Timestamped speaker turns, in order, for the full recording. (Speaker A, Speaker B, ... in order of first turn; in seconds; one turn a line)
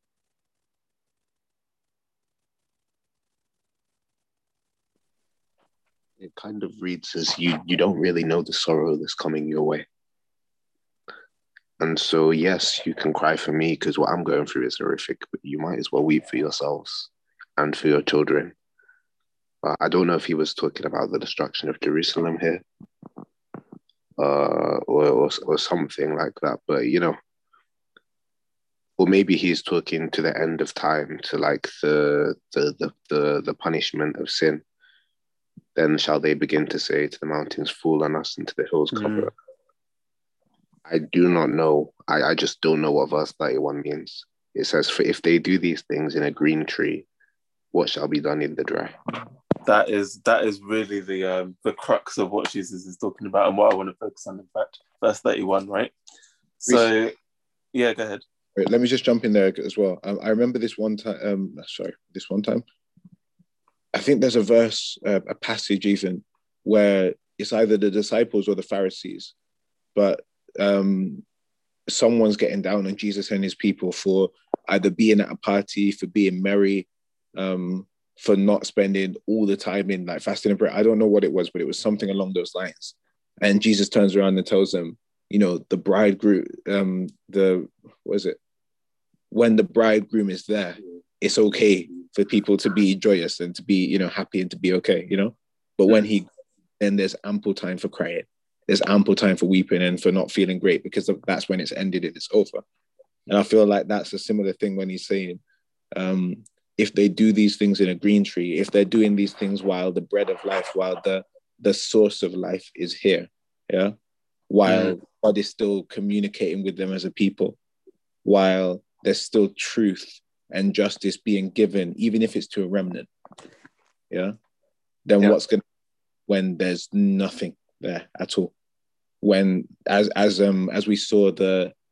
Speaker A: 6.2-9.8
Speaker A: 11.8-18.5
Speaker A: 19.6-22.6
Speaker A: 24.2-27.2
Speaker A: 29.0-34.6
Speaker A: 35.7-39.3
Speaker B: 38.9-39.3
Speaker A: 40.9-47.1
Speaker A: 47.7-49.0
Speaker B: 49.6-55.9
Speaker B: 56.6-57.1
Speaker B: 57.7-58.2
Speaker C: 58.5-62.6
Speaker C: 63.9-69.3
Speaker C: 69.9-71.2
Speaker C: 71.9-88.4
Speaker C: 89.3-96.3
Speaker C: 96.8-102.6
Speaker C: 103.3-105.4
Speaker C: 105.9-113.9
Speaker C: 114.5-117.6
Speaker B: 114.7-114.9
Speaker C: 118.2-123.1
Speaker C: 124.1-124.3
Speaker C: 125.0-125.6
Speaker C: 126.3-128.5
Speaker C: 129.2-131.7